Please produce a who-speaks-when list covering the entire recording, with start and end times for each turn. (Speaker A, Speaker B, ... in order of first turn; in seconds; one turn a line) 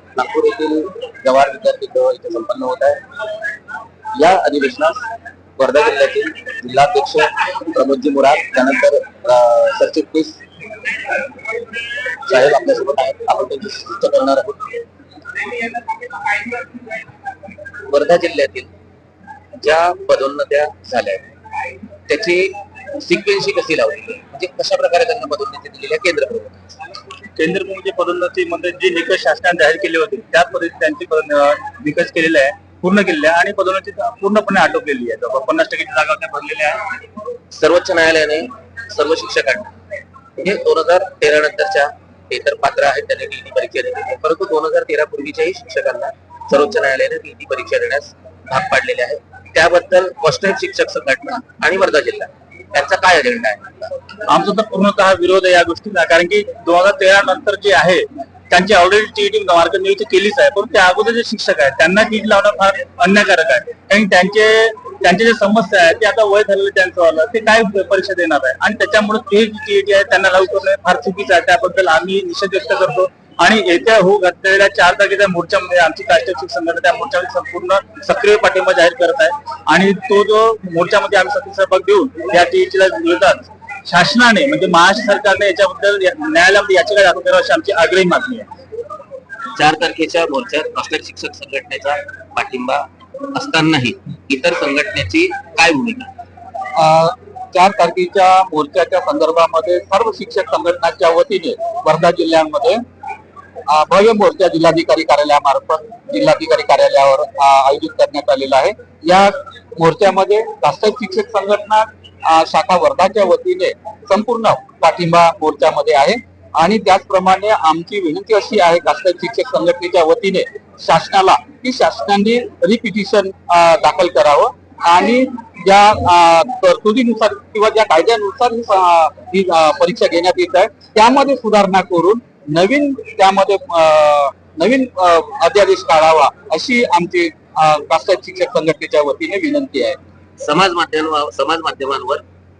Speaker A: 0.1-3.0
Speaker A: 4.1-5.0
Speaker A: 5.6-10.4
Speaker A: 12.0-14.8
Speaker A: 15.7-16.7
Speaker A: 17.7-18.7
Speaker A: 19.6-21.2
Speaker A: 22.1-26.7
Speaker B: 27.4-36.8
Speaker A: 37.5-39.8
Speaker A: 40.4-53.9
Speaker B: 54.2-88.5
Speaker A: 89.5-96.1
Speaker C: 96.7-102.8
Speaker C: 103.7-140.0
Speaker A: 140.4-142.2